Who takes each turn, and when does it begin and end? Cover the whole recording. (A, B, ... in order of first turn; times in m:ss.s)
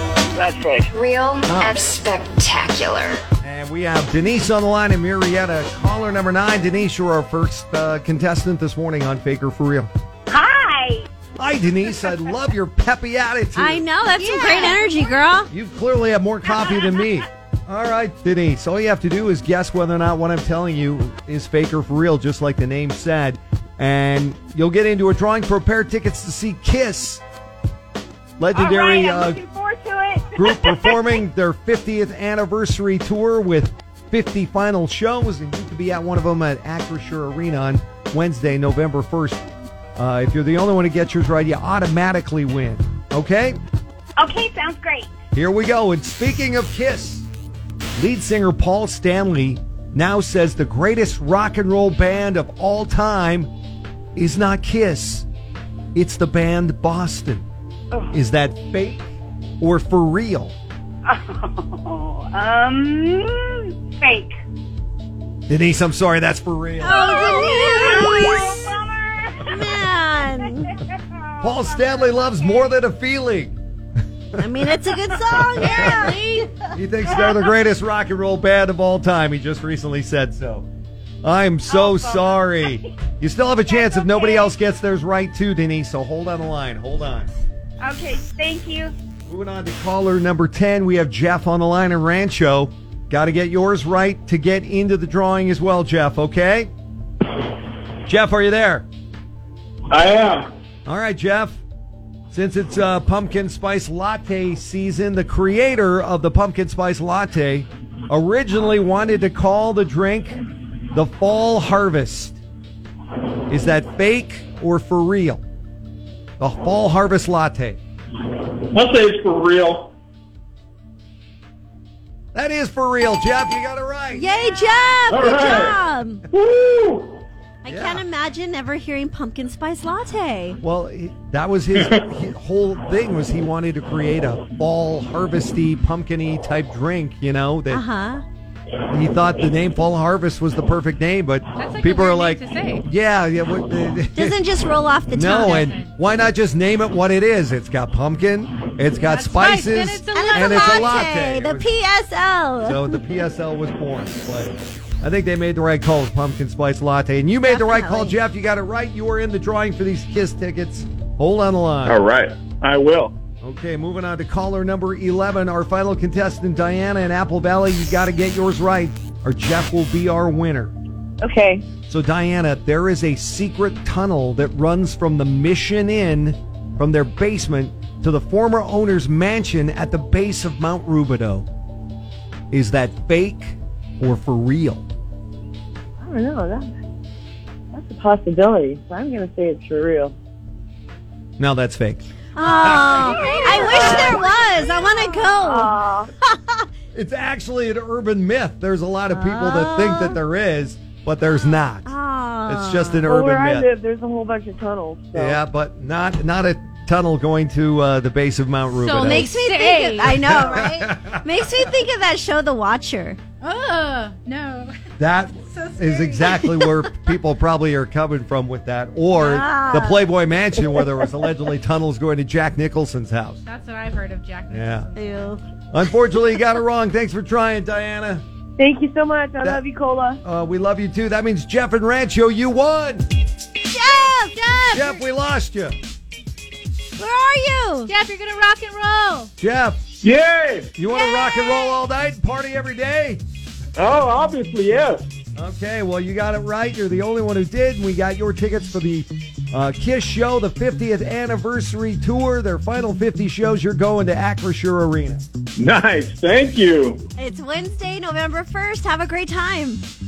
0:00.8-0:03.2 A
0:03.4-0:09.9 B
0:10.3-0:11.0 C
0:11.4-0:13.9 B
0:13.6-0:15.5 D
0:14.2-0:15.0 E
0:15.5-0:27.2 B
0:28.4-0:29.4 B
0:28.5-0:31.2 C
0:30.4-0:39.4 B
0:40.0-0:43.6 B
0:44.2-0:45.1 C
0:45.3-0:47.3 B
0:48.0-0:53.5 B
0:54.2-0:55.3 B
0:56.0-0:57.4 B
0:58.1-1:00.6 B
1:01.1-1:04.3 C
1:05.5-1:07.0 B
1:06.8-1:08.6 D
1:06.9-1:09.5 C
1:09.4-1:10.8 D
1:11.2-1:12.7 C
1:11.4-1:13.6 B
1:14.4-1:16.5 D
1:15.6-1:16.5 E
1:15.6-1:16.1 B
1:16.7-1:20.7 B
1:21.2-1:27.3 B
1:21.7-1:22.8 C
1:23.6-1:24.5 C
1:27.8-1:28.9 C
1:29.3-1:36.7 B
1:38.1-1:38.9 B
1:39.9-1:40.5 F
1:40.9-1:41.6 B
1:42.3-1:50.4 B
1:50.9-1:52.4 B
1:53.5-1:55.4 B
1:56.4-1:57.8 B
1:58.7-1:59.9 F
2:02.3-2:04.4 B
2:04.1-2:06.2 D
2:05.1-2:05.8 F
2:06.3-2:07.2 F
2:07.6-2:10.6 D
2:07.7-2:08.0 B
2:10.6-2:17.8 B
2:17.7-2:18.2 D
2:18.9-2:24.4 B
2:21.6-2:22.9 E
2:24.2-2:25.7 D
2:25.1-2:31.7 B
2:25.2-2:25.9 E
2:29.0-2:31.0 E
2:30.1-2:33.0 D
2:32.6-2:42.0 B
2:37.4-2:38.2 D
2:41.8-2:43.2 F
2:43.4-2:50.7 B
2:51.2-2:51.7 G
2:51.9-3:01.5 B
3:02.5-3:04.9 B
3:06.0-3:06.7 G
3:07.7-3:10.2 G
3:11.4-3:12.1 B
3:12.4-3:16.6 D
3:12.6-3:13.8 B
3:13.2-3:16.1 G
3:16.9-3:21.9 B
3:19.1-3:20.2 D
3:21.8-3:23.0 D
3:22.5-3:23.7 B
3:23.0-3:25.4 G
3:25.1-3:29.3 B
3:28.8-3:30.2 E
3:29.0-3:33.2 D
3:30.2-3:31.2 B
3:33.4-3:34.8 E
3:35.0-3:43.4 B
3:35.5-3:36.5 E
3:39.1-3:40.1 D
3:43.5-3:45.0 E
3:44.5-3:44.9 B
3:45.0-3:45.4 D
3:45.7-3:48.2 B
3:48.6-3:50.2 G
3:50.2-3:53.1 B
3:53.7-3:55.0 D
3:54.7-3:55.8 B
3:57.0-3:57.9 D
3:57.9-3:59.3 E
3:59.4-3:59.8 B
4:00.0-4:00.7 F
4:00.8-4:03.2 B
4:00.9-4:01.8 D
4:03.8-4:05.1 F
4:05.4-4:15.2 B
4:15.6-4:17.0 F
4:17.2-4:19.8 D